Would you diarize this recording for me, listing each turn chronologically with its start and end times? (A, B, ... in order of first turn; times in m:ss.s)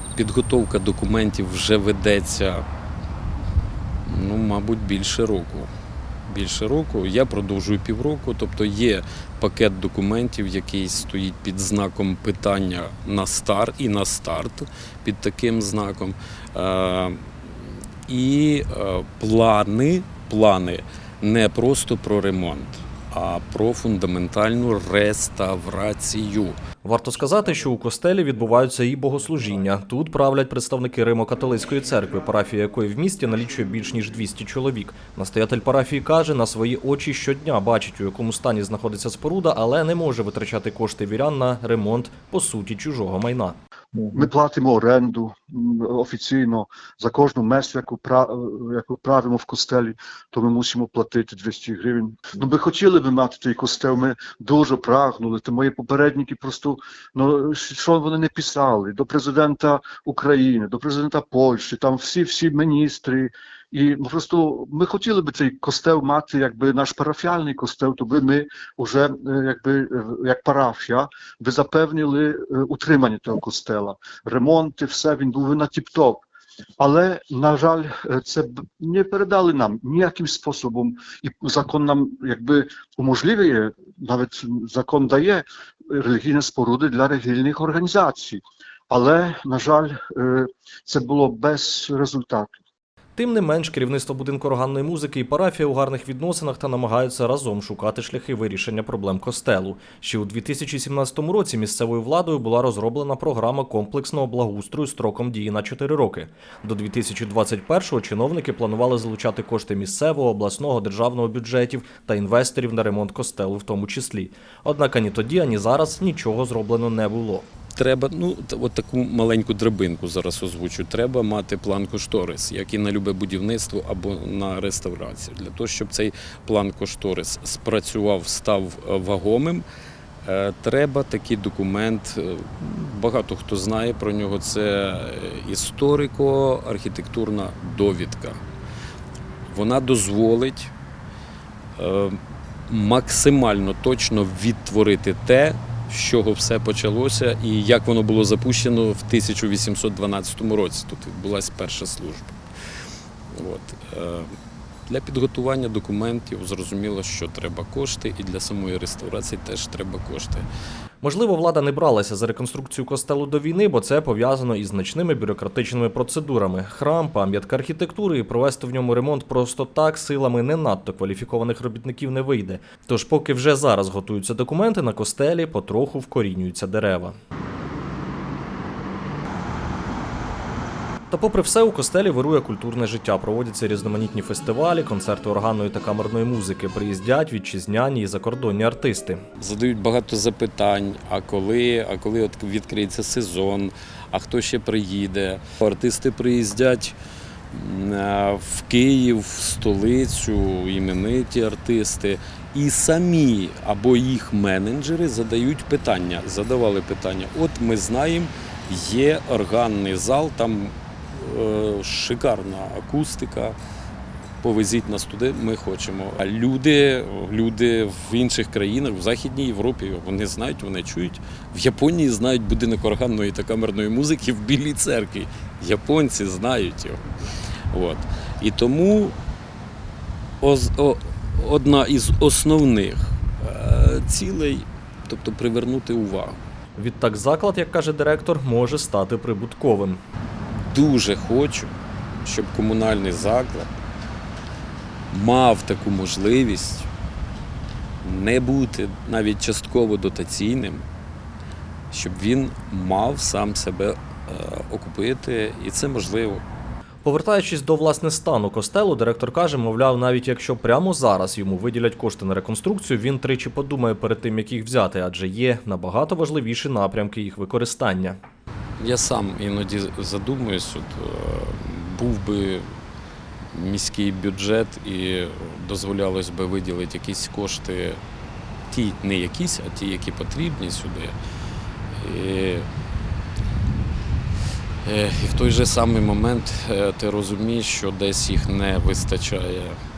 0:00.2-0:02.6 A
0:04.1-0:05.7 A
0:06.3-0:17.2 A
0:18.1-0:26.6 A
0:26.8-0:43.6 B
0:44.1-1:16.2 C
1:16.8-1:32.6 C
1:33.2-1:57.5 B
1:57.7-2:09.6 A
2:10.2-2:18.4 A
2:19.5-2:20.7 A
2:21.8-2:22.2 A
2:22.7-2:32.4 A
2:33.4-2:34.3 A
2:34.9-2:40.4 A
2:41.0-2:57.1 B
3:01.1-3:09.2 B
3:09.4-3:17.0 A
3:17.5-3:33.6 A
3:34.4-3:47.0 A
3:47.7-3:49.2 A
3:50.4-3:56.4 A
3:56.8-4:00.0 B
4:00.7-4:01.7 A
4:02.2-4:03.7 A
4:05.1-4:06.9 A
4:08.0-4:10.8 A
4:11.9-4:16.4 A
4:17.0-4:28.2 B
4:28.8-4:32.6 A
4:33.5-4:38.0 A
4:38.7-4:41.1 A
4:42.0-4:42.7 A
4:44.8-4:49.8 A